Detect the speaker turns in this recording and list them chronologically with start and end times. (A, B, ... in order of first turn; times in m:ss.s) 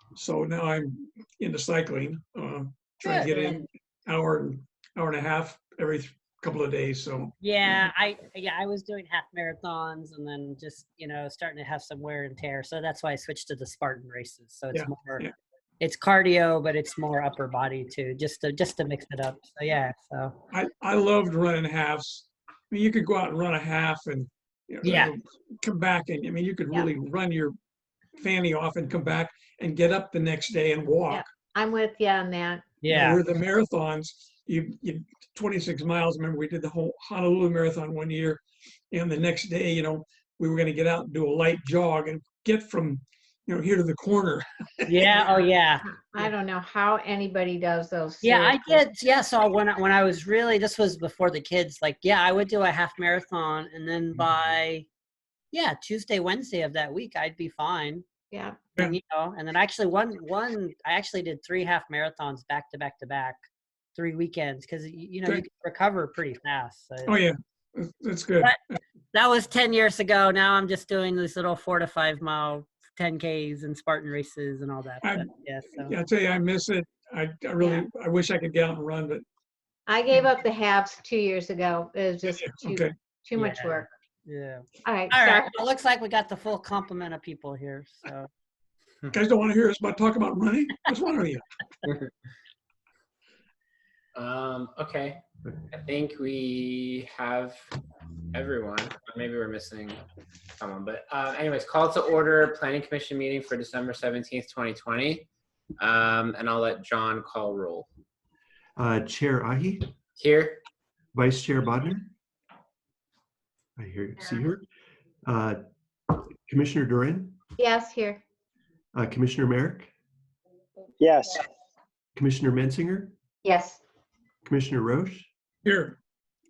0:00.2-0:07.3 A
0:03.0-0:03.6 B
0:03.2-0:03.6 C
0:07.4-0:15.2 B
0:14.7-0:15.3 A
0:15.8-0:20.4 B
0:20.5-0:27.6 A
0:24.8-0:25.1 B
0:28.2-0:31.2 A
0:31.1-0:32.6 C
0:32.8-0:33.2 B
0:32.9-0:45.2 A
0:44.9-0:46.3 B
0:46.1-0:48.8 C
0:48.2-0:54.9 B
0:55.5-0:58.0 B
0:58.3-0:58.6 C
0:58.8-1:03.4 B
1:04.0-1:07.2 B
1:07.0-1:08.6 A
1:09.1-1:16.0 B
1:15.0-1:19.2 A
1:19.9-1:23.9 C
1:22.2-1:22.9 A
1:23.4-1:28.3 B
1:24.8-1:25.6 C
1:29.1-1:31.5 A
1:31.8-1:32.1 D
1:34.2-1:37.6 D
1:38.3-1:40.0 D
1:40.6-1:47.9 D
1:48.8-1:49.9 E
1:50.2-1:50.6 D
1:51.1-1:52.1 E
1:53.8-1:54.7 E
1:55.3-1:57.4 E
1:57.6-1:58.2 C
1:59.0-1:59.9 E
2:02.2-2:03.1 E
2:03.4-2:03.8 C
2:04.5-2:05.3 E
2:05.6-2:06.0 A